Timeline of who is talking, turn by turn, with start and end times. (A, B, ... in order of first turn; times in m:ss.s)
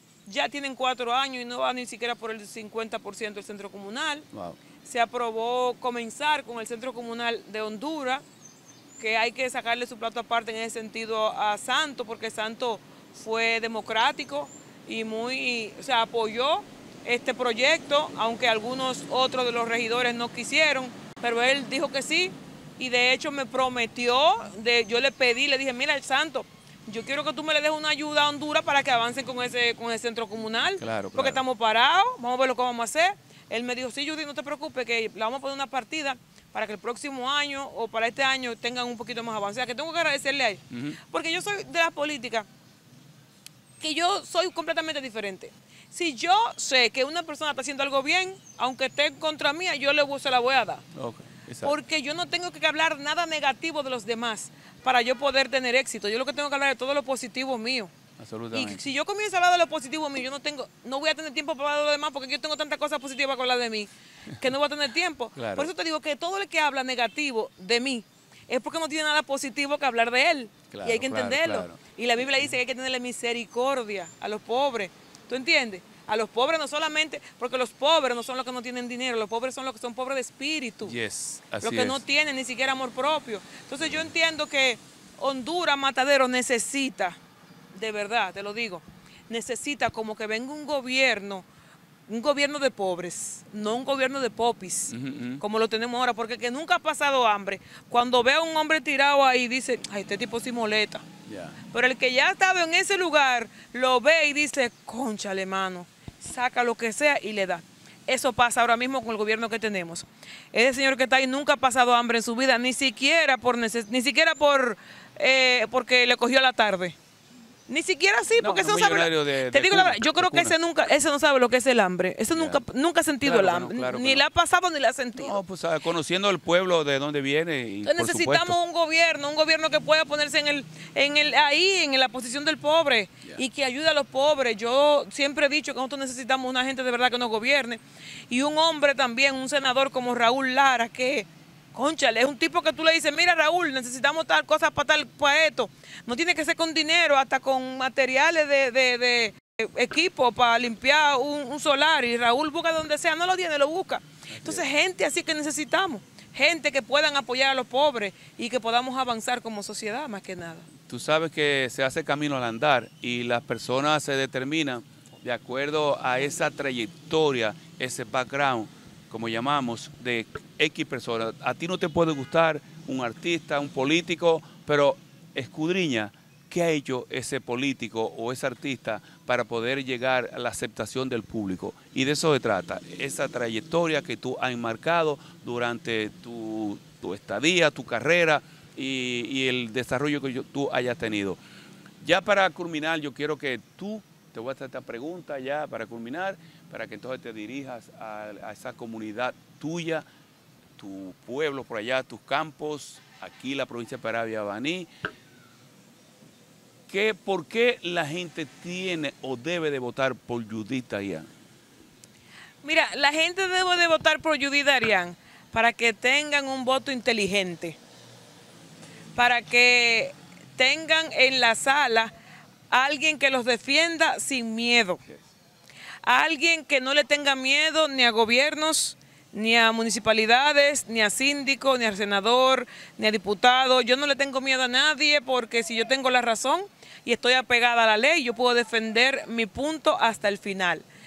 0:00.2-0:04.2 A
0:04.3-0:04.6 B
0:04.8-0:08.2 A
0:09.0-0:42.5 A
0:30.8-0:31.4 B
0:40.7-0:41.0 B
0:43.8-0:50.8 A
0:50.9-0:51.7 B
0:51.6-0:57.9 A
0:58.2-0:58.8 B
0:58.5-1:21.0 A
1:05.4-1:05.7 B
1:10.7-1:11.8 B
1:20.8-1:22.0 B
1:21.6-1:27.2 A
1:27.7-1:31.4 A
1:32.1-1:41.0 A
1:34.9-1:35.4 B
1:41.3-1:41.6 B
1:41.7-1:57.0 A
1:57.7-2:05.4 A
1:58.4-2:00.5 B
2:02.3-2:02.6 B
2:03.2-2:04.2 B
2:05.2-2:08.6 B
2:07.8-2:40.6 A
2:34.3-2:34.6 B
2:40.9-3:11.4 B
3:12.0-3:20.0 B
3:20.8-3:24.9 B
3:26.9-3:31.3 B
3:32.6-3:37.8 A
3:39.1-3:42.1 A
3:42.7-3:45.0 A
3:46.0-4:00.8 A